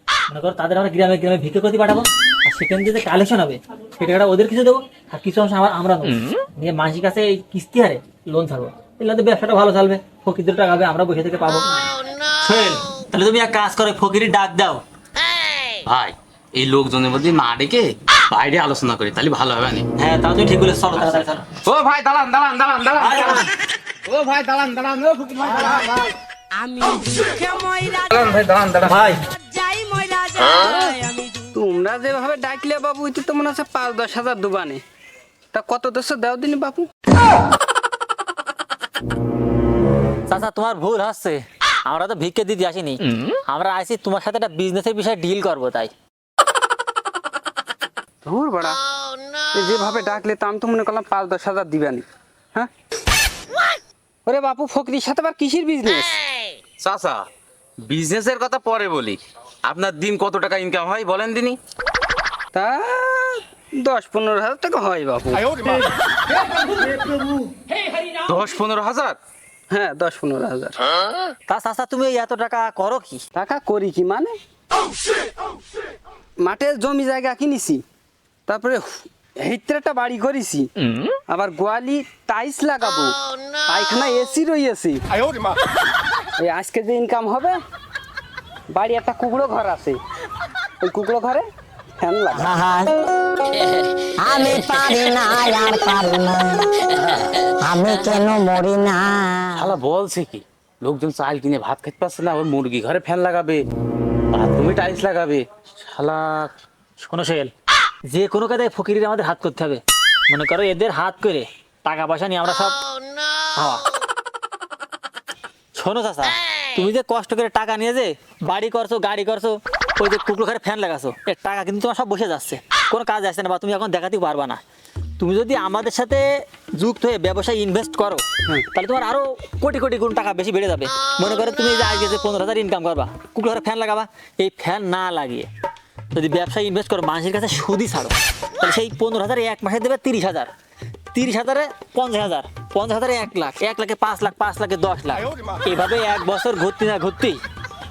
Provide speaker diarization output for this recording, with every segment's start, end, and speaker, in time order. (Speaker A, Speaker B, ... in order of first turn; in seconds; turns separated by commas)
Speaker A: 0.3-11.9, Speaker A: 12.4-14.8, Speaker B: 15.9-19.8, Speaker A: 20.0-21.4, Speaker B: 20.9-23.5, Speaker A: 23.0-23.4, Speaker B: 24.1-26.0, Speaker C: 26.8-28.0, Speaker B: 28.1-29.0, Speaker A: 28.8-29.2, Speaker C: 29.4-34.8, Speaker C: 35.5-36.9, Speaker A: 40.3-45.9, Speaker C: 48.2-48.8, Speaker C: 49.5-52.7, Speaker C: 54.2-56.2, Speaker B: 56.8-57.2, Speaker B: 57.9-61.6, Speaker C: 62.5-65.8, Speaker B: 68.3-69.2, Speaker C: 69.7-70.8, Speaker A: 71.5-73.2, Speaker C: 73.3-74.3, Speaker C: 76.4-77.8, Speaker C: 78.5-80.7, Speaker C: 81.3-85.0, Speaker C: 86.4-87.5, Speaker C: 88.7-90.0, Speaker C: 90.8-91.4, Speaker C: 92.0-92.5, Speaker D: 92.3-93.0, Speaker D: 94.2-96.7, Speaker B: 94.6-95.0, Speaker D: 97.6-99.5, Speaker B: 99.5-103.6, Speaker B: 104.3-106.5, Speaker A: 107.0-107.5, Speaker A: 108.1-112.8, Speaker A: 113.6-113.8, Speaker A: 115.8-124.6, Speaker A: 125.2-135.5, Speaker A: 136.1-140.5, Speaker A: 141.1-147.4